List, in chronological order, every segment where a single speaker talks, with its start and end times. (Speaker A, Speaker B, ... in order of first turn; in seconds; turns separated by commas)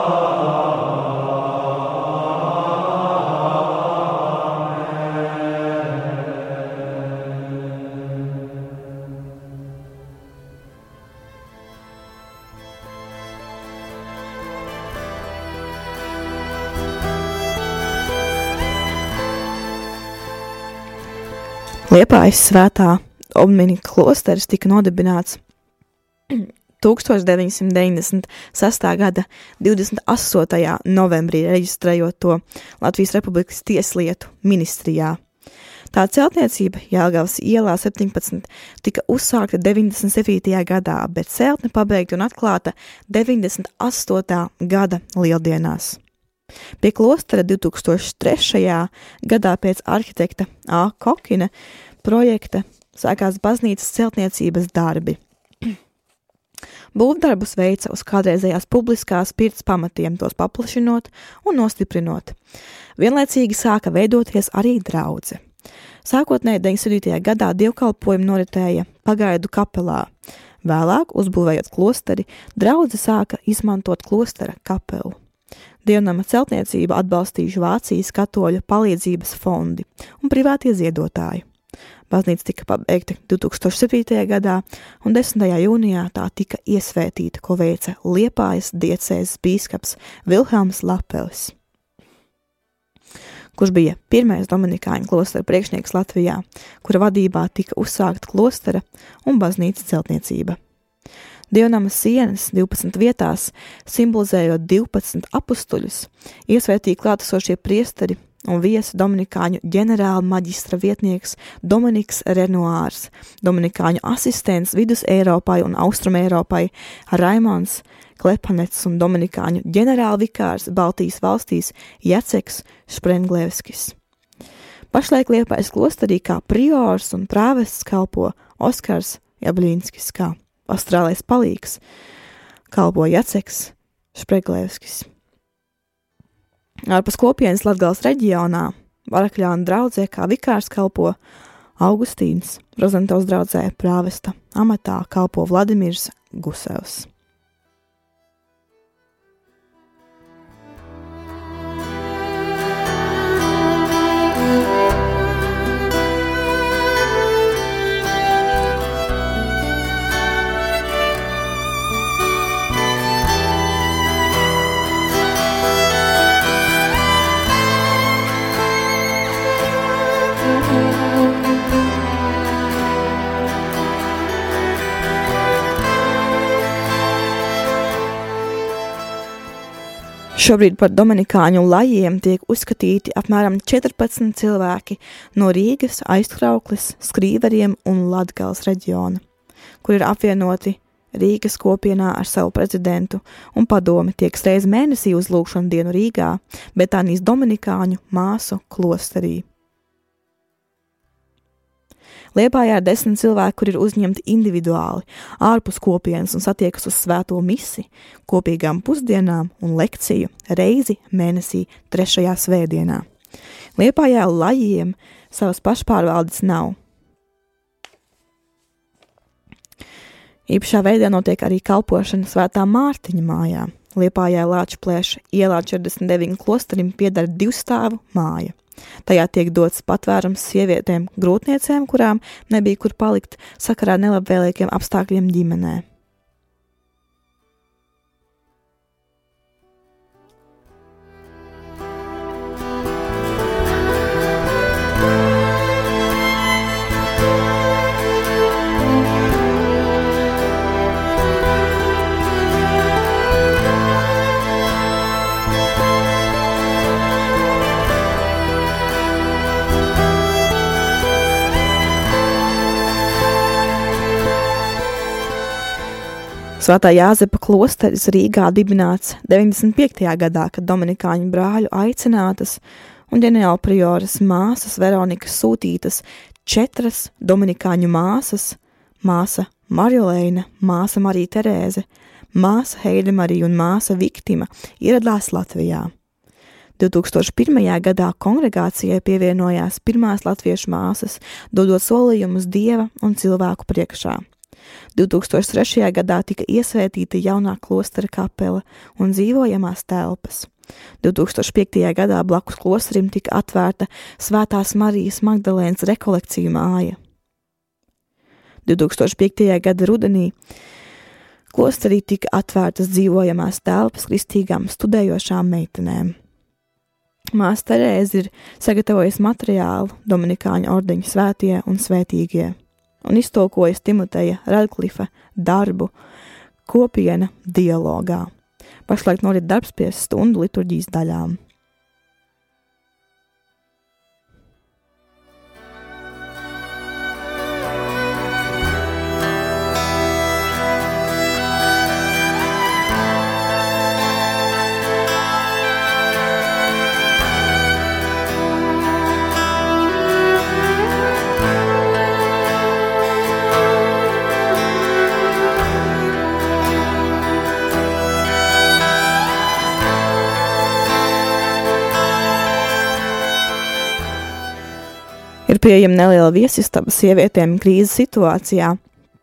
Speaker A: 21.9-25.4, Speaker A: 26.3-35.2, Speaker A: 35.9-46.0, Speaker A: 46.8-51.5, Speaker A: 52.0-55.2, Speaker A: 56.9-62.3, Speaker A: 63.0-65.4, Speaker A: 66.0-70.1, Speaker A: 70.6-75.2, Speaker A: 75.8-81.4, Speaker A: 82.1-91.5, Speaker A: 93.5-100.6, Speaker A: 101.5-124.0, Speaker A: 124.9-131.8, Speaker A: 132.7-135.1, Speaker A: 136.9-141.2, Speaker A: 141.8-147.1, Speaker A: 180.3-189.2, Speaker A: 189.8-199.4, Speaker A: 202.3-213.0, Speaker A: 213.8-216.8, Speaker A: 220.5-235.8, Speaker A: 266.6-285.9, Speaker A: 286.8-294.2, Speaker A: 294.9-300.5, Speaker A: 301.0-307.0, Speaker A: 308.6-310.3, Speaker A: 311.5-316.1, Speaker A: 317.3-325.9, Speaker A: 326.6-328.3, Speaker A: 328.9-331.4, Speaker A: 365.5-368.8